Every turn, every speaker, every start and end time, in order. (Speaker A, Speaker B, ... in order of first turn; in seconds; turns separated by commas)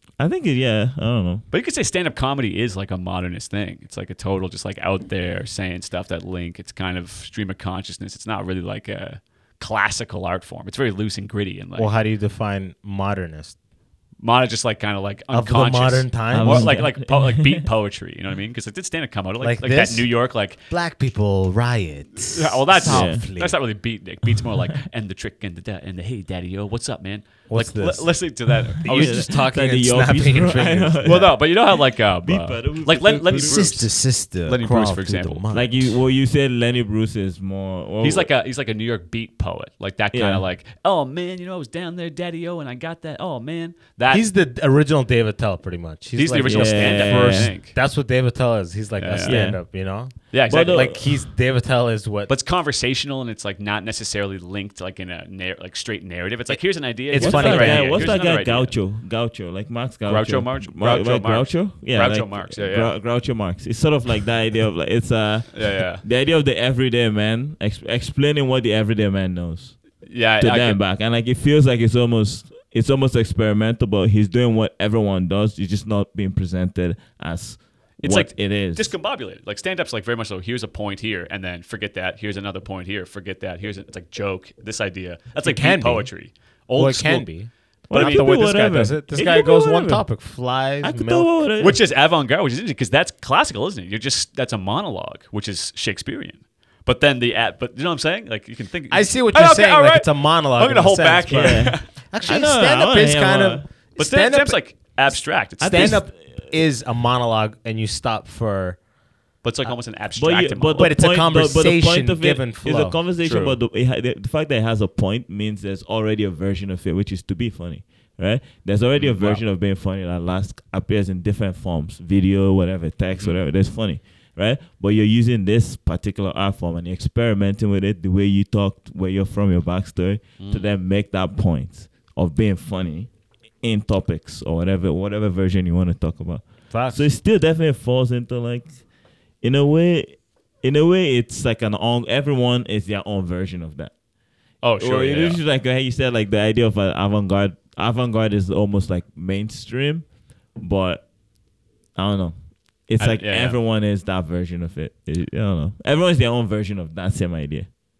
Speaker A: 0.2-1.4, Speaker B: 1.5-11.9, Speaker C: 11.8-13.6, Speaker B: 14.2-20.6, Speaker C: 15.3-16.8, Speaker A: 16.3-17.7, Speaker C: 19.4-20.1, Speaker C: 20.7-23.6, Speaker B: 22.3-29.2, Speaker A: 22.9-23.2, Speaker C: 27.5-31.2, Speaker A: 28.8-33.7, Speaker B: 31.0-35.4, Speaker C: 33.2-35.9, Speaker A: 35.5-38.3, Speaker B: 38.0-44.3, Speaker A: 40.1-40.5, Speaker C: 44.1-52.3, Speaker B: 46.2-47.8, Speaker A: 46.5-47.5, Speaker B: 49.0-49.5, Speaker A: 49.2-49.6, Speaker B: 50.3-50.9, Speaker A: 50.5-51.1, Speaker B: 52.3-58.8, Speaker C: 57.1-58.1, Speaker A: 57.1-69.8, Speaker B: 60.1-62.9, Speaker B: 65.5-66.0, Speaker B: 70.0-70.8, Speaker A: 70.4-78.9, Speaker B: 78.0-87.3, Speaker C: 85.4-86.1, Speaker C: 86.8-91.3, Speaker A: 87.9-90.1, Speaker B: 87.9-88.3, Speaker A: 90.8-91.8, Speaker B: 91.6-101.9, Speaker C: 98.9-104.6, Speaker A: 101.3-103.7, Speaker B: 104.0-106.0, Speaker C: 105.6-108.8, Speaker A: 105.6-106.1, Speaker B: 109.4-111.0, Speaker A: 110.2-133.1, Speaker C: 110.8-113.0, Speaker B: 113.2-113.6, Speaker B: 119.0-119.4, Speaker B: 130.4-130.7, Speaker A: 133.6-138.7, Speaker C: 136.7-137.0, Speaker A: 139.4-143.9, Speaker B: 144.6-145.4, Speaker A: 144.8-151.1, Speaker A: 151.9-152.4, Speaker A: 152.9-157.7, Speaker B: 153.0-153.6